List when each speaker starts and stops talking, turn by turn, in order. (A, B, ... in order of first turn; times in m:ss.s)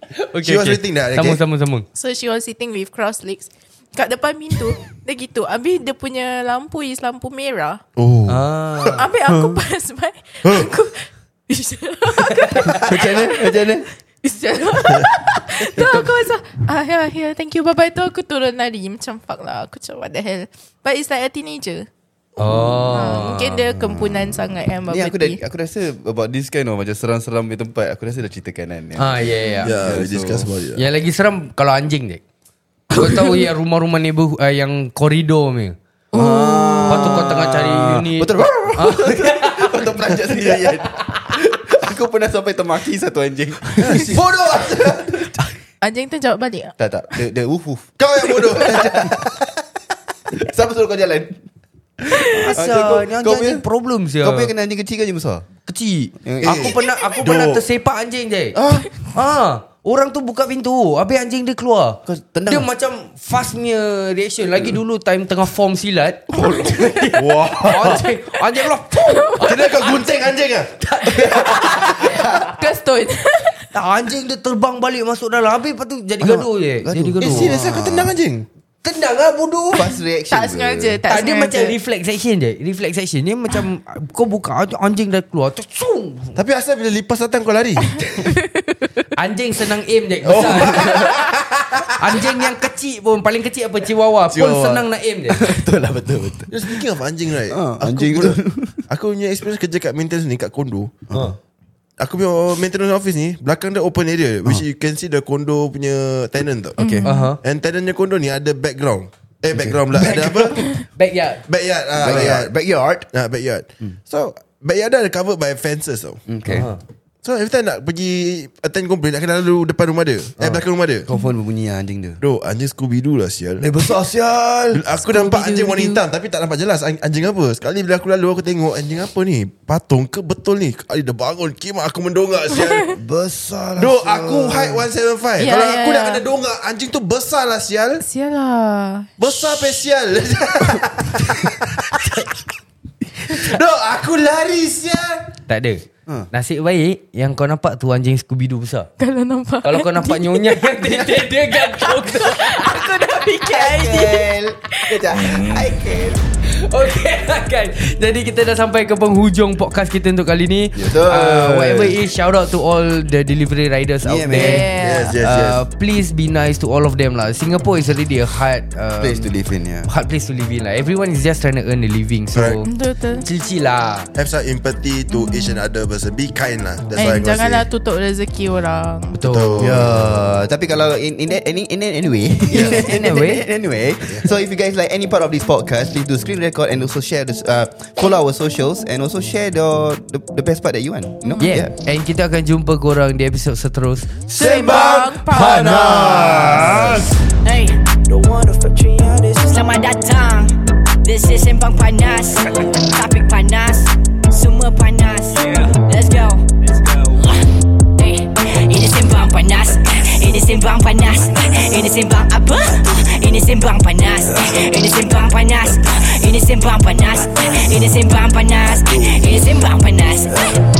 0:00.3-0:01.8 A
0:00.4-0:01.4 B
0:01.9-0:07.8 C
0:08.0-0:08.5 B
0:08.3-0:09.0 A
0:08.9-0:21.9 C
0:09.3-0:09.6 D
0:10.4-0:10.7 B
0:12.1-0:12.9 A
0:12.7-0:13.8 D
0:22.4-0:23.6 A
0:22.9-0:25.4 C
0:23.8-0:30.5 D
0:29.0-0:29.8 A
0:29.6-0:30.8 B
0:30.8-0:32.2 A
0:32.9-0:39.6 A
0:33.0-0:33.3 C
0:36.1-0:37.0 C
0:36.1-0:45.4 D
0:40.3-0:40.8 B
0:43.8-0:45.2 B
0:45.8-0:46.7 C
0:46.8-0:49.4 D
0:48.0-0:49.5 B
0:50.3-0:51.4 D
0:52.0-0:53.6 D
0:52.1-0:52.5 C
0:52.3-0:54.5 A
0:54.2-0:55.4 D
0:55.7-1:09.8 A
0:56.2-0:56.8 D
0:56.4-0:57.6 B
0:58.5-0:58.9 D
1:02.0-1:02.7 D
1:06.3-1:07.1 D
1:07.1-1:08.1 B
1:09.0-1:09.9 C
1:09.4-1:12.0 B
1:10.8-1:12.2 A
1:11.8-1:13.6 C
1:13.7-1:17.6 A
1:16.2-1:18.1 D
1:17.2-1:18.4 B
1:18.8-1:19.8 A
1:19.7-1:21.0 D
1:19.8-1:21.8 C
1:21.1-1:26.4 A
1:26.4-1:28.3 B
1:28.0-1:28.8 C
1:29.2-1:31.0 A
1:30.2-1:32.2 B
1:30.3-1:31.1 D
1:31.9-1:35.5 A
1:34.3-1:34.8 B
1:35.3-1:38.8 D
1:36.5-1:41.0 B
1:42.0-1:46.8 B
1:46.8-1:47.0 D
1:46.8-1:47.3 C
1:47.0-1:47.4 A
1:47.4-1:50.6 B
1:49.5-1:50.4 D
1:50.0-1:51.4 A
1:51.4-1:52.5 B
1:51.9-1:53.1 D
1:53.1-1:56.2 B
1:56.3-1:56.7 D
1:56.4-1:56.8 A
1:57.2-2:01.1 B
2:01.1-2:02.2 D
2:02.2-2:03.7 B
2:03.6-2:04.8 D
2:04.7-2:13.0 B
2:04.9-2:06.0 C
2:12.9-2:14.9 D
2:13.8-2:18.0 B
2:15.4-2:16.2 C
2:18.0-2:19.7 C
2:19.2-2:22.1 B
2:23.2-2:25.3 B
2:25.5-2:28.9 A
2:29.0-2:31.0 C
2:29.6-2:33.0 A
2:31.8-2:35.4 C
2:33.4-2:36.2 D
2:36.6-2:49.3 A
2:40.7-2:42.0 D
2:44.0-2:44.9 D
2:44.4-2:45.2 C
2:44.7-2:45.6 B
2:49.0-2:49.9 D
2:49.8-2:52.7 A
2:52.3-2:52.6 B
2:52.6-2:53.2 C
2:53.2-2:54.1 A
2:54.1-2:57.6 B
2:55.1-2:55.6 C
2:57.0-2:59.2 C
2:59.1-2:59.8 A
2:59.2-3:00.2 B
2:59.6-3:11.7 D
3:02.5-3:03.4 A
3:11.4-3:14.2 A
3:14.3-3:16.2 C
3:14.3-3:17.1 B
3:14.5-3:17.1 D
3:17.4-3:17.8 E
3:19.4-3:20.5 E
3:21.0-3:26.4 E
3:28.0-3:40.5 E